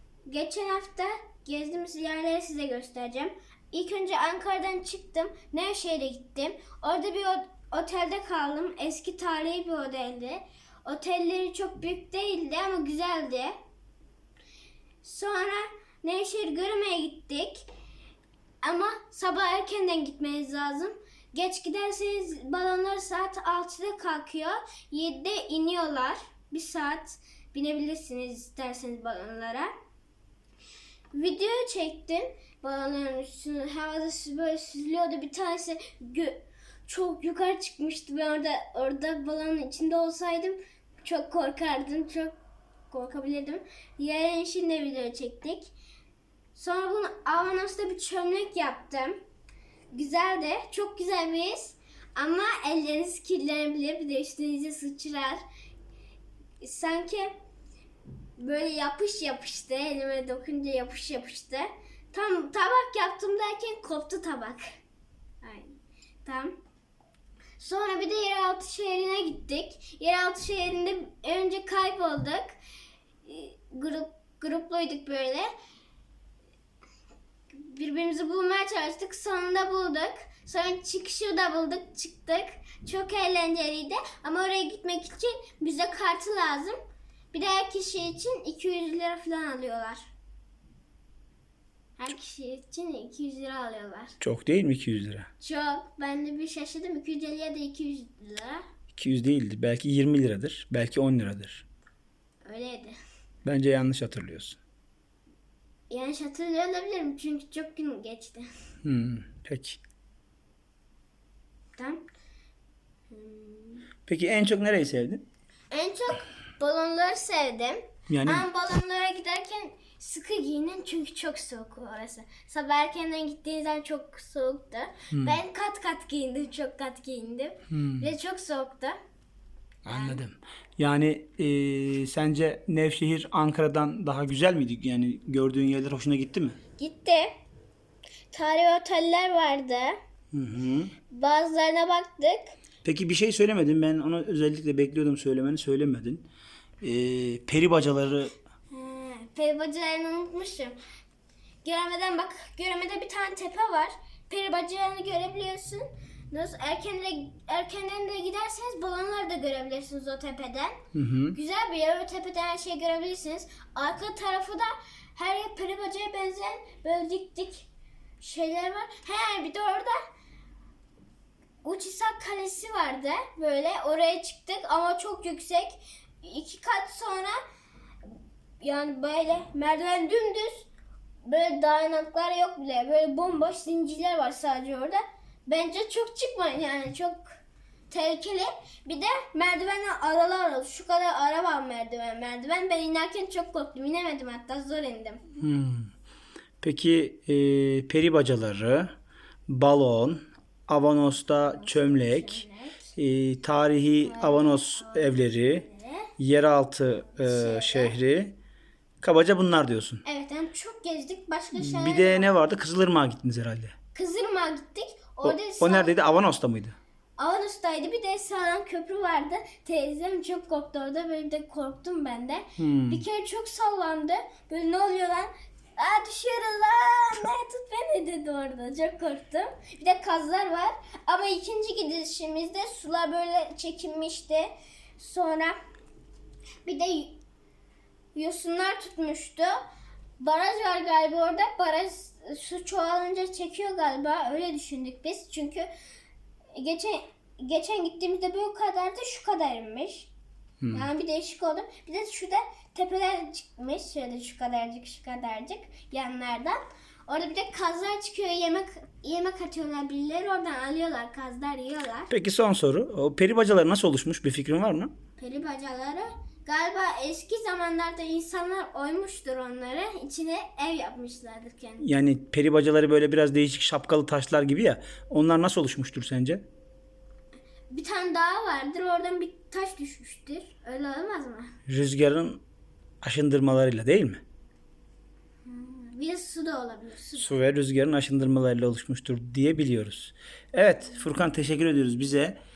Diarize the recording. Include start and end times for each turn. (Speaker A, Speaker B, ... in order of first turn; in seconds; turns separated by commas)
Speaker A: 0.2-13.5, Speaker A: 15.0-17.6, Speaker A: 18.6-29.7, Speaker A: 31.1-42.4, Speaker A: 42.9-45.7, Speaker A: 46.5-49.2, Speaker A: 49.9-55.4, Speaker A: 56.6-57.3, Speaker A: 58.4-64.6, Speaker A: 65.4-66.6, Speaker A: 67.6-72.5, Speaker A: 73.2-75.5, Speaker A: 77.5-86.8, Speaker A: 87.3-90.1, Speaker A: 92.0-94.2, Speaker B: 94.2-95.3, Speaker A: 95.4-98.6, Speaker B: 99.0-101.6, Speaker A: 102.4-103.0, Speaker B: 103.4-104.6, Speaker A: 105.9-108.5, Speaker B: 108.8-109.8, Speaker A: 111.8-112.0, Speaker A: 113.1-113.8, Speaker B: 114.1-115.2, Speaker A: 115.7-129.0, Speaker B: 118.1-118.4, Speaker B: 125.1-125.4, Speaker B: 127.7-128.1, Speaker B: 129.8-136.6, Speaker A: 129.9-130.2, Speaker A: 136.8-137.3, Speaker A: 138.3-140.0, Speaker B: 140.3-140.9, Speaker A: 141.1-142.5, Speaker B: 142.8-146.2, Speaker B: 146.8-148.3, Speaker A: 148.7-150.8, Speaker A: 151.6-160.8, Speaker B: 160.9-161.4, Speaker A: 161.3-167.7, Speaker A: 168.2-170.0, Speaker A: 171.6-177.4, Speaker A: 178.6-180.7, Speaker A: 181.2-187.2, Speaker A: 187.9-195.2, Speaker B: 195.4-195.9, Speaker B: 196.6-198.9, Speaker B: 199.5-202.4, Speaker A: 201.6-202.9, Speaker B: 202.9-205.6, Speaker A: 204.0-206.1, Speaker B: 206.2-208.3, Speaker A: 207.1-207.9, Speaker B: 209.0-210.0, Speaker A: 210.0-212.3, Speaker B: 211.5-213.7, Speaker A: 213.9-216.2, Speaker B: 215.2-216.8, Speaker A: 217.2-235.6, Speaker B: 222.6-223.0, Speaker A: 236.6-237.2, Speaker A: 238.1-239.6, Speaker A: 240.2-245.7, Speaker A: 246.5-250.1, Speaker B: 250.6-250.9, Speaker A: 250.7-262.1, Speaker B: 262.1-264.9, Speaker A: 265.2-271.8, Speaker B: 271.8-276.4, Speaker A: 277.7-281.5, Speaker B: 281.7-282.4, Speaker B: 283.0-284.2, Speaker A: 285.4-287.4, Speaker B: 287.1-292.4